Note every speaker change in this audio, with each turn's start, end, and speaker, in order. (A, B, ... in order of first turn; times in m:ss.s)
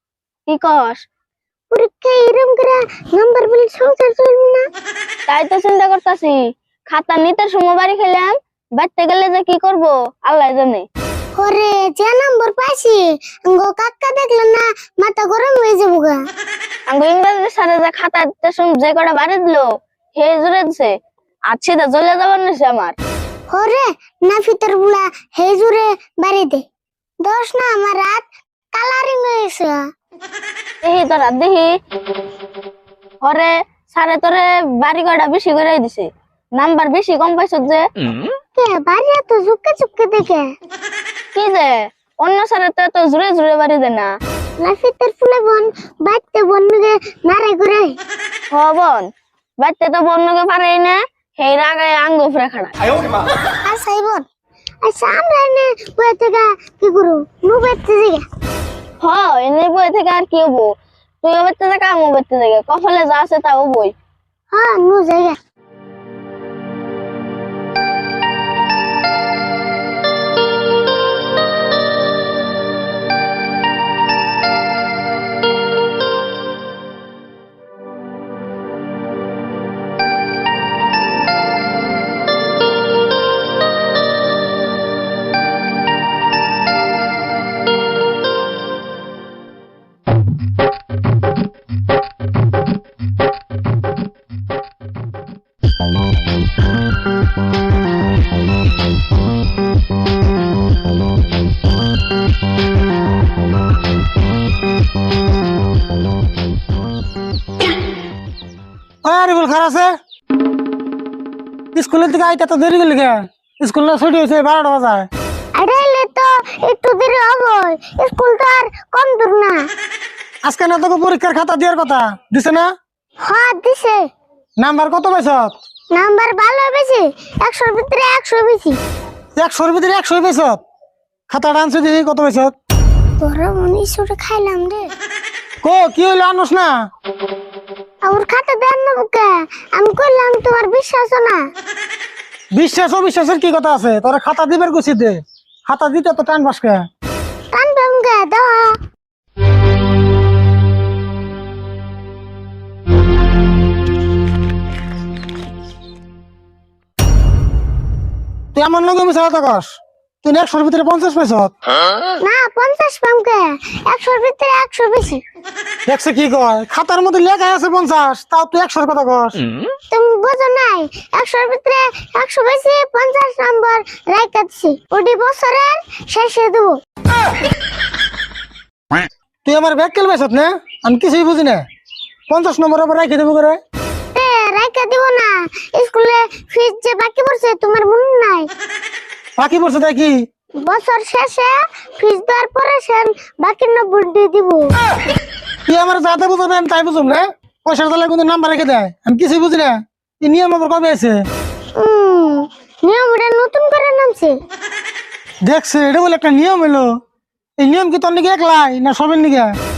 0:00.5-0:01.1 A
0:01.7-0:04.7 B
0:05.3-0:06.4 A
0:06.9-0:10.9 A
0:11.4-0:16.2 B
0:16.9-0:21.0 A
0:21.5-0:23.0 A
0:23.5-0:26.6 B
0:27.2-0:29.9 B
0:30.8-0:31.8 A
0:33.2-0:37.9 A
0:38.6-0:40.5 B
0:41.3-0:44.1 A
0:44.6-0:48.0 B
0:48.5-0:49.1 A
0:49.6-0:52.8 A
0:53.6-0:54.2 B
0:54.8-0:58.2 B
0:59.0-1:03.9 A
1:04.5-1:05.4 B
1:49.0-1:49.9 C
1:51.7-1:55.1 C
1:55.6-1:59.7 B
2:00.4-2:02.7 C
2:03.2-2:04.0 B
2:04.6-2:05.6 C
2:05.9-2:08.8 B
2:09.4-2:10.6 C
2:11.3-2:12.5 C
2:13.2-2:14.9 B
2:15.6-2:16.7 C
2:18.0-2:21.4 B
2:22.6-2:26.8 C
2:27.5-2:28.8 B
2:38.5-2:41.5 C
2:42.2-2:45.2 B
2:45.9-2:49.4 C
2:49.9-2:56.8 B
2:59.4-3:01.6 C
3:02.3-3:03.6 C
3:04.1-3:08.5 B
3:09.4-3:10.2 C
3:10.6-3:14.8 B
3:15.7-3:21.2 C
3:21.8-3:24.4 B
3:25.5-3:26.9 C
3:27.6-3:29.5 C